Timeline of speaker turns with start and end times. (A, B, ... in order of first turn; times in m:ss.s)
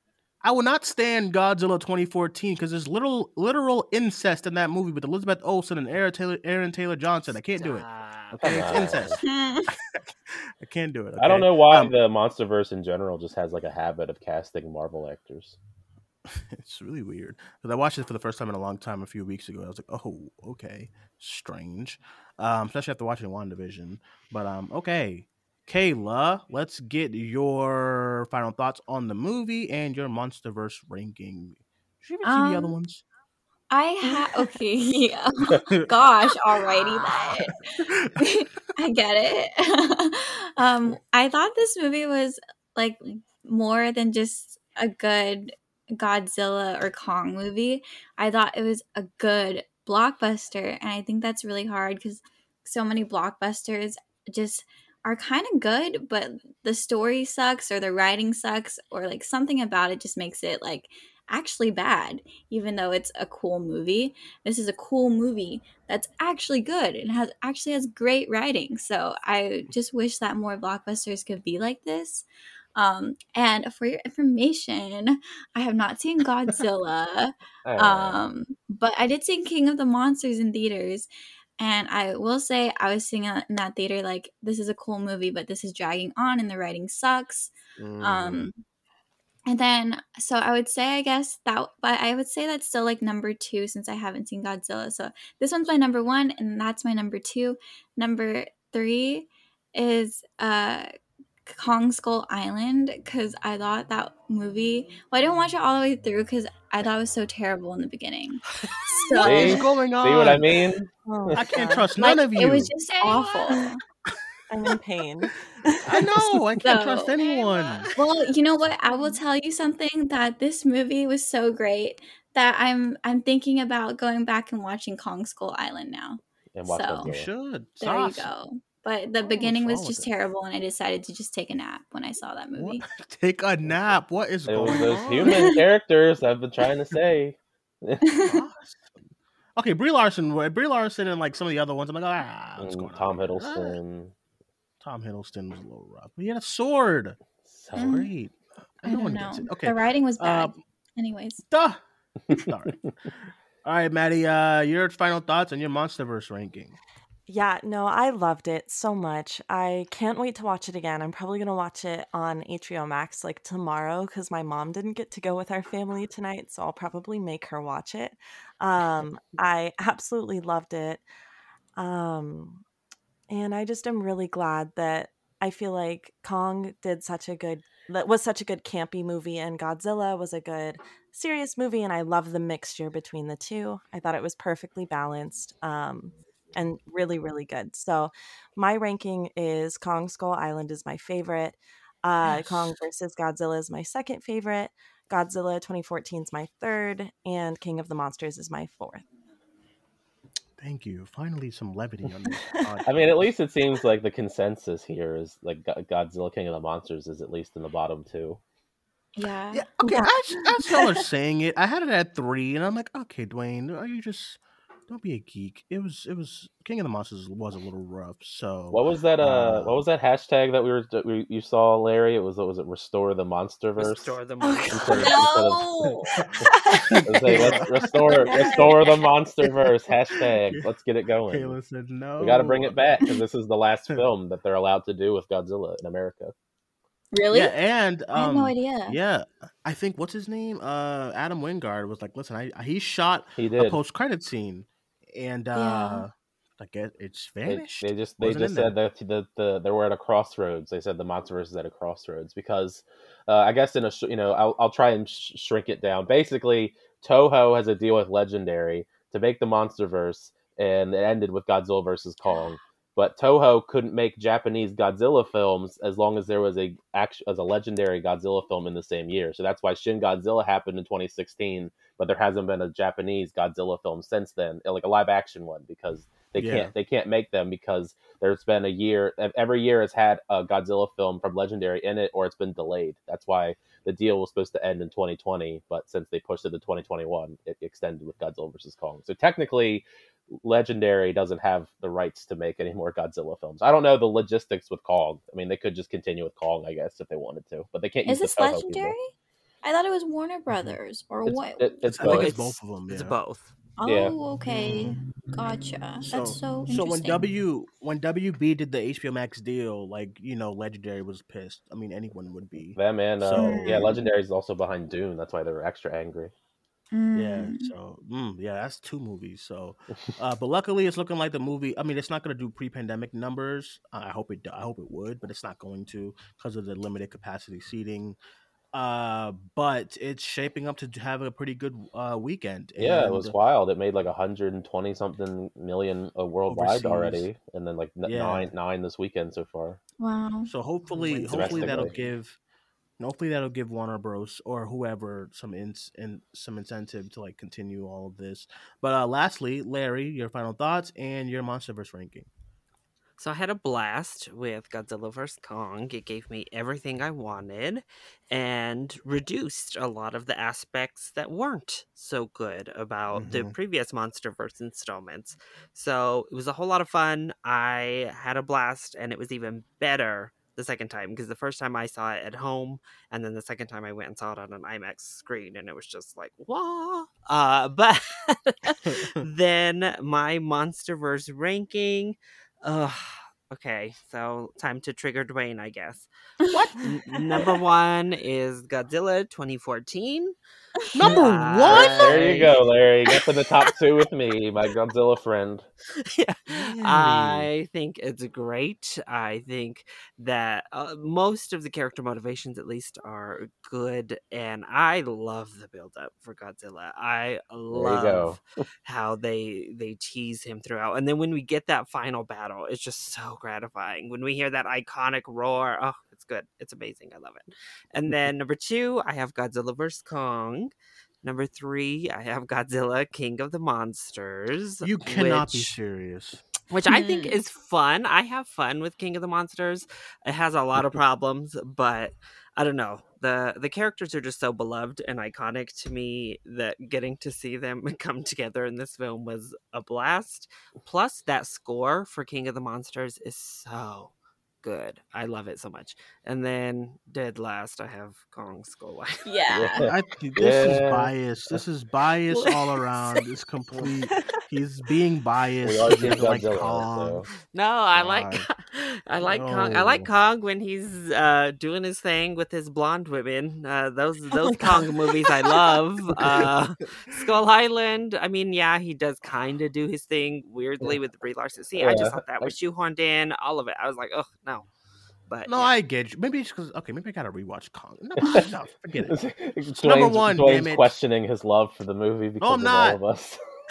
0:00.4-0:07.8 A
0:07.6-0:08.9 B
0:08.4-0:11.9 A
0:08.4-0:09.2 C
0:09.2-0:09.7 D
0:11.2-0:15.6 C
0:16.2-0:33.0 A
0:32.2-0:32.8 D
0:33.7-1:28.6 D
0:36.7-0:38.1 A
1:17.6-1:18.2 C
1:27.8-1:28.5 A
1:29.5-1:40.9 D
1:41.5-1:49.6 D
1:49.2-1:50.5 A
1:49.2-1:51.4 C
1:51.0-1:51.9 E
1:51.3-1:52.7 A
1:52.0-1:53.8 D
1:54.5-1:56.2 E
1:55.8-1:57.9 A
1:56.6-1:57.1 D
1:57.2-1:58.0 B
1:58.0-2:07.1 D
2:06.6-2:07.3 C
2:07.0-2:08.3 A
2:07.8-2:12.8 D
2:09.2-2:10.1 A
2:12.5-2:15.5 A
2:14.5-2:18.0 C
2:14.7-2:15.6 D
2:18.0-2:18.4 D
2:18.2-2:19.0 A
2:19.6-2:23.8 A
2:22.6-2:24.1 C
2:24.8-2:27.2 A
2:27.4-2:27.9 C
2:27.8-2:28.1 D
2:27.8-2:30.6 A
2:28.8-2:31.4 D
2:31.5-2:31.8 A
2:32.3-2:32.8 A
2:33.6-2:36.8 A
2:37.3-2:51.0 E
2:51.8-2:52.6 E
2:53.3-3:19.0 E
3:12.2-3:12.6 A
3:20.6-3:23.0 A
3:22.8-3:28.4 C
3:29.2-3:30.0 D
3:29.5-3:39.8 A
3:38.7-3:44.2 C
3:43.8-3:45.1 B
3:44.4-3:44.8 E
3:44.7-3:45.7 C
3:45.0-3:46.2 D
3:46.9-3:48.5 A
3:47.0-3:51.6 C
3:48.3-3:48.7 E
3:51.3-3:52.8 A
3:52.2-3:56.3 C
3:57.1-3:57.5 D
3:57.3-4:08.7 A
3:58.1-3:59.0 D
4:03.4-4:03.8 C
4:05.5-4:06.0 D
4:07.4-4:58.9 C
4:36.4-4:36.7 A
4:58.0-4:59.1 D
4:59.6-5:01.7 D
5:01.2-5:02.4 C
5:01.8-5:03.2 A
5:02.0-5:03.5 B
5:03.8-5:07.2 D
5:03.8-5:04.1 C
5:04.4-5:05.0 A
5:06.0-5:13.9 A
5:12.7-5:16.3 C
5:13.4-5:14.0 D
5:16.9-5:17.7 D
5:17.1-5:28.2 A
5:28.7-5:33.3 A
5:32.8-5:39.8 C
5:36.5-5:37.3 A
5:38.0-5:38.5 A
5:40.0-5:40.5 D
5:40.4-5:42.4 A
5:40.9-5:42.1 B
5:41.3-5:41.9 C
5:43.0-5:52.3 A
5:53.2-6:26.1 B
6:03.1-6:03.5 A
6:18.8-6:19.2 A
6:26.5-6:26.9 A
6:26.8-6:30.3 B
6:30.9-6:32.4 A
6:31.0-6:32.6 B
6:31.6-6:35.6 C
6:36.0-7:05.8 B
6:36.7-6:37.5 A
6:47.7-6:48.4 C
7:04.8-7:06.4 A
7:06.7-7:29.2 B
7:06.9-7:07.3 D
7:29.2-7:29.8 D
7:29.5-7:31.1 C
7:29.8-7:37.3 A
7:35.6-7:37.3 C
7:37.5-7:54.7 B
7:37.9-7:38.5 A
7:39.2-7:40.1 A
7:51.8-7:52.5 C
7:55.3-7:55.7 B
7:55.5-7:59.2 A
7:59.1-8:03.4 C
7:59.8-8:00.9 A
8:02.4-8:03.0 A